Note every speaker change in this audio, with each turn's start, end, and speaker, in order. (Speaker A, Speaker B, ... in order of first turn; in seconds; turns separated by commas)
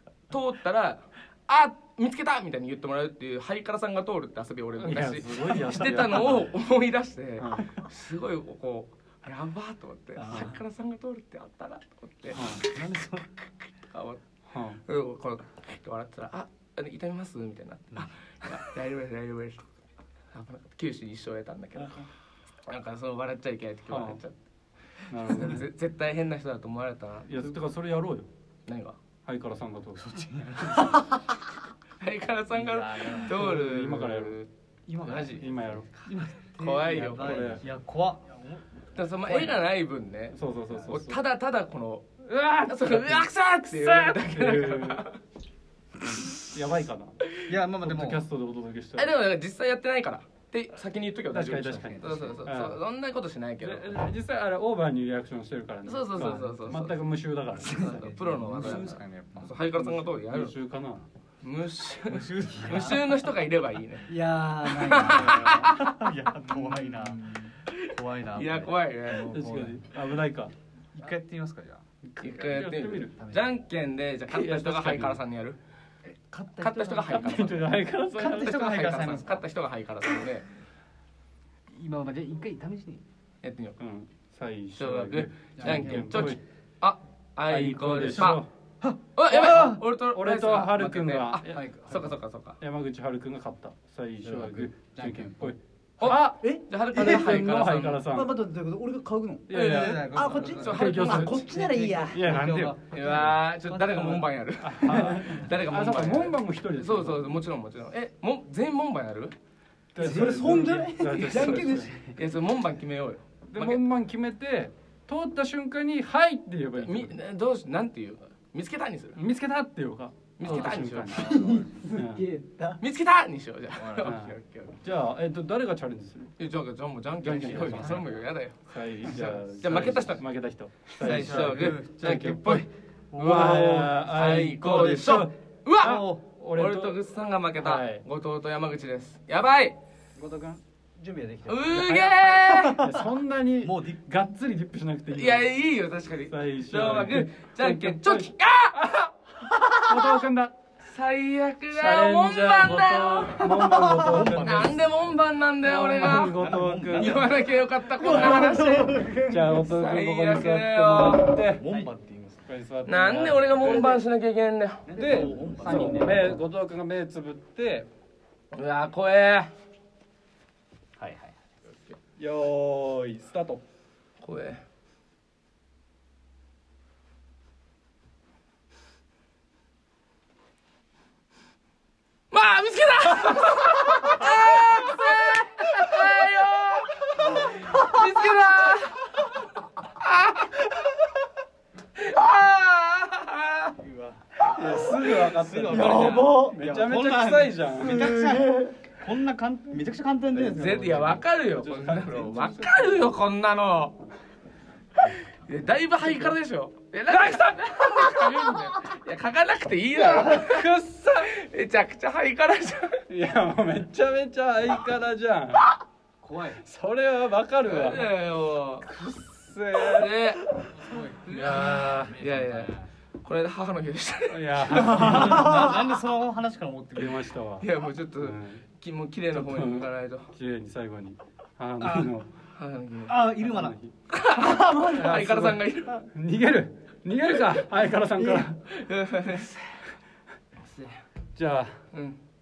Speaker A: 0.3-19.8, Speaker B: 4.8-6.5, Speaker B: 7.4-7.9, Speaker C: 10.2-10.6, Speaker B: 10.3-10.5, Speaker B: 12.3-12.7, Speaker D: 12.3-13.3, Speaker B: 14.5-14.8, Speaker D: 18.0-18.5, Speaker A: 20.3-22.1, Speaker B: 21.8-22.1, Speaker A: 22.6-24.4, Speaker B: 23.9-24.2, Speaker B: 25.1-25.7, Speaker A: 25.2-27.3, Speaker B: 27.3-28.3, Speaker A: 28.7-29.0, Speaker B: 29.2-30.0, Speaker D: 29.9-31.2, Speaker A: 30.9-31.2, Speaker A: 32.0-34.5, Speaker D: 32.5-33.4, Speaker B: 33.2-34.4, Speaker D: 34.9-39.6, Speaker A: 35.0-35.5, Speaker B: 35.2-36.1, Speaker A: 36.6-37.4, Speaker B: 36.9-37.6, Speaker C: 37.0-37.6, Speaker A: 38.9-45.2, Speaker B: 40.3-41.2, Speaker D: 40.7-41.0, Speaker B: 42.3-45.1, Speaker B: 46.2-47.3, Speaker D: 47.4-48.2, Speaker B: 47.8-49.2, Speaker A: 49.0-54.0, Speaker B: 51.3-52.8, Speaker C: 51.9-52.4, Speaker B: 53.6-58.1, Speaker A: 55.9-57.0, Speaker A: 57.6-60.6, Speaker C: 57.6-59.0, Speaker D: 58.5-59.6, Speaker B: 59.8-61.1, Speaker A: 61.4-64.1, Speaker D: 62.1-63.1, Speaker C: 64.1-65.7, Speaker A: 64.7-66.1, Speaker D: 65.5-67.3, Speaker C: 66.5-67.6, Speaker A: 67.7-69.4, Speaker D: 67.9-68.8, Speaker C: 69.1-69.8, Speaker B: 69.3-70.5, Speaker D: 70.9-72.7, Speaker B: 72.2-73.2, Speaker A: 72.2-75.6, Speaker C: 73.1-73.6, Speaker B: 74.3-75.2, Speaker C: 76.3-77.1, Speaker A: 76.6-80.5, Speaker B: 77.1-78.7, Speaker D: 78.1-79.5, Speaker D: 81.7-83.0, Speaker A: 83.4-83.8, Speaker B: 83.8-86.4, Speaker A: 84.8-88.4, Speaker C: 85.6-86.2, Speaker B: 87.5-88.5, Speaker D: 88.0-89.0, Speaker A: 89.2-92.6, Speaker B: 89.3-98.4, Speaker C: 91.5-92.1, Speaker C: 94.2-95.6, Speaker A: 96.0-98.1, Speaker C: 96.2-97.2, Speaker C: 98.1-102.4, Speaker B: 99.5-101.5, Speaker A: 99.5-101.5, Speaker D: 99.5-101.0, Speaker D: 101.5-104.3, Speaker B: 102.1-102.8, Speaker A: 102.9-109.3, Speaker B: 104.6-107.4, Speaker C: 105.0-105.3, Speaker B: 110.0-111.9, Speaker C: 110.0-112.2, Speaker A: 110.2-113.8, Speaker B: 113.5-117.2, Speaker A: 116.8-119.2, Speaker B: 119.2-122.3, Speaker A: 120.4-121.4, Speaker D: 120.4-121.9, Speaker C: 121.2-122.8, Speaker A: 122.8-124.8, Speaker D: 123.8-124.1, Speaker B: 124.0-126.3, Speaker A: 126.4-130.2, Speaker B: 127.2-128.1, Speaker D: 127.5-127.9, Speaker B: 128.7-132.7, Speaker A: 131.0-139.8, Speaker D: 131.0-135.3, Speaker B: 133.2-137.0, Speaker D: 135.8-136.3, Speaker B: 137.6-138.1, Speaker C: 140.2-141.8, Speaker A: 141.5-142.8, Speaker B: 141.7-145.5, Speaker C: 142.6-143.0, Speaker D: 143.6-144.0, Speaker A: 145.1-148.8, Speaker B: 146.3-149.1, Speaker B: 149.8-150.5, Speaker A: 150.8-156.4, Speaker B: 151.7-154.8, Speaker D: 153.7-155.0, Speaker B: 155.6-157.3, Speaker D: 156.1-157.5, Speaker A: 156.9-161.4, Speaker B: 158.0-158.6, Speaker C: 158.1-159.7, Speaker B: 159.2-161.6, Speaker D: 161.4-162.5, Speaker B: 162.5-163.9, Speaker A: 162.9-165.3, Speaker C: 163.6-164.0, Speaker C: 164.9-166.4, Speaker B: 164.9-167.9, Speaker A: 168.5-169.5, Speaker C: 171.0-171.3, Speaker A: 171.7-172.0, Speaker B: 172.2-173.6, Speaker A: 174.2-174.6, Speaker A: 182.3-189.4, Speaker A: 189.9-191.0, Speaker A: 192.0-193.8, Speaker D: 193.8-201.2, Speaker B: 194.4-198.2, Speaker A: 194.8-195.1, Speaker C: 195.7-196.6, Speaker C: 197.8-198.8, Speaker B: 200.3-203.1, Speaker A: 200.4-204.0, Speaker A: 204.9-213.1, Speaker B: 208.1-208.4, Speaker B: 210.0-211.3, Speaker B: 213.1-215.8, Speaker C: 216.2-216.6, Speaker B: 216.6-218.1, Speaker A: 217.6-218.9, Speaker B: 218.8-220.7, Speaker A: 219.9-220.5, Speaker C: 220.9-222.9, Speaker A: 221.0-225.4, Speaker B: 221.3-222.2, Speaker B: 224.3-225.6, Speaker D: 224.9-227.3, Speaker C: 225.2-225.7, Speaker B: 226.9-228.7, Speaker A: 227.6-230.3, Speaker D: 229.3-229.6, Speaker B: 229.4-232.3, Speaker D: 231.8-232.1, Speaker A: 232.5-233.2, Speaker D: 233.1-233.8, Speaker B: 233.2-233.9, Speaker A: 234.1-236.1, Speaker C: 234.4-235.6, Speaker B: 236.1-238.6, Speaker A: 238.3-239.6, Speaker C: 240.6-241.0, Speaker B: 241.4-241.8, Speaker A: 241.9-242.2